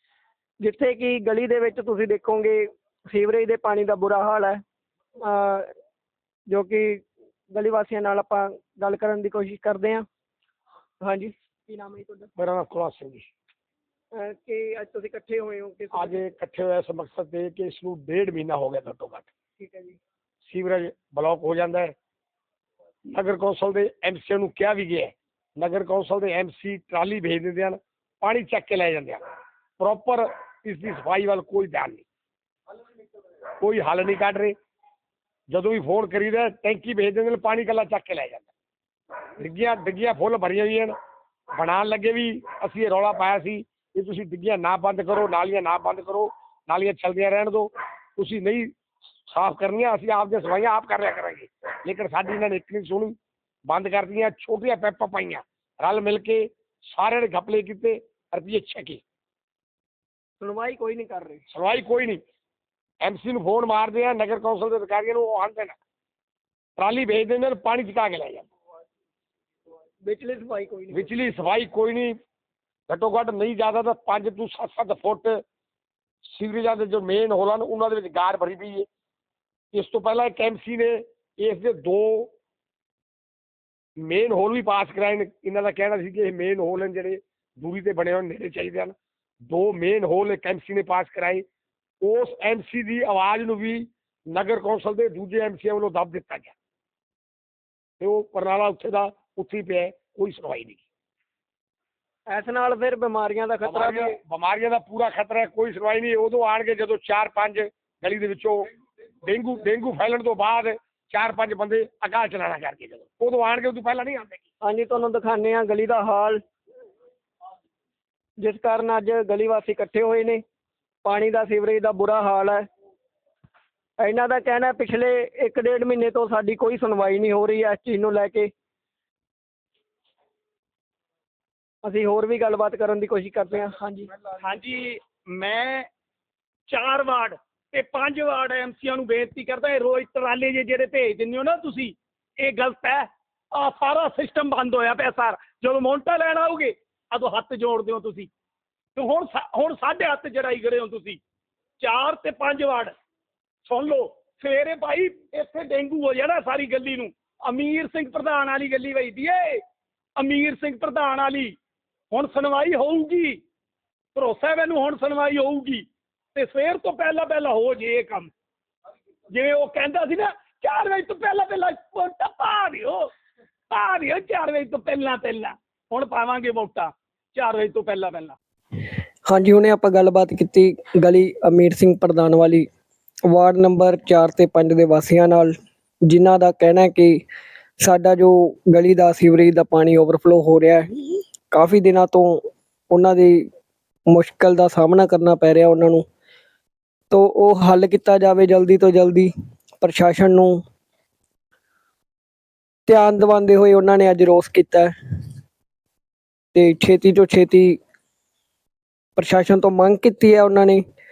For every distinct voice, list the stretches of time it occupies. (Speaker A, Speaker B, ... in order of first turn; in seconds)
Speaker A: 0.6-4.6, 5.2-5.7, 6.5-10.0, 11.0-12.3, 14.1-16.2, 19.6-20.0, 60.4-61.4, 70.0-71.1, 102.3-104.2, 114.6-116.4, 118.4-120.4, 121.0-122.6, 124.0-128.5, 131.8-134.1, 179.3-182.7, 183.3-185.5, 186.1-187.2, 187.8-193.5, 194.1-196.0, 197.1-200.6, 202.9-204.9, 206.5-207.8, 209.2-210.8
Speaker B: 12.4-13.3, 15.9-19.2, 20.4-21.9, 23.1-29.2, 29.8-32.0, 33.6-34.5, 35.5-38.5, 39.4-40.9, 41.5-48.7, 49.3-53.1, 53.7-59.0, 61.5-62.2, 63.0-65.8, 66.8-68.5, 70.9-72.1, 72.9-75.4, 76.2-78.9, 79.7-82.3, 84.0-91.4, 92.0-96.5, 98.0-100.8, 103.6-108.7, 109.2-114.4
Speaker C: 134.3-135.9, 136.7-148.3, 148.9-151.2, 151.8-152.9, 153.6-159.6, 160.2-161.6, 162.1-163.4, 164.1-168.3, 169.3-173.1, 173.7-178.4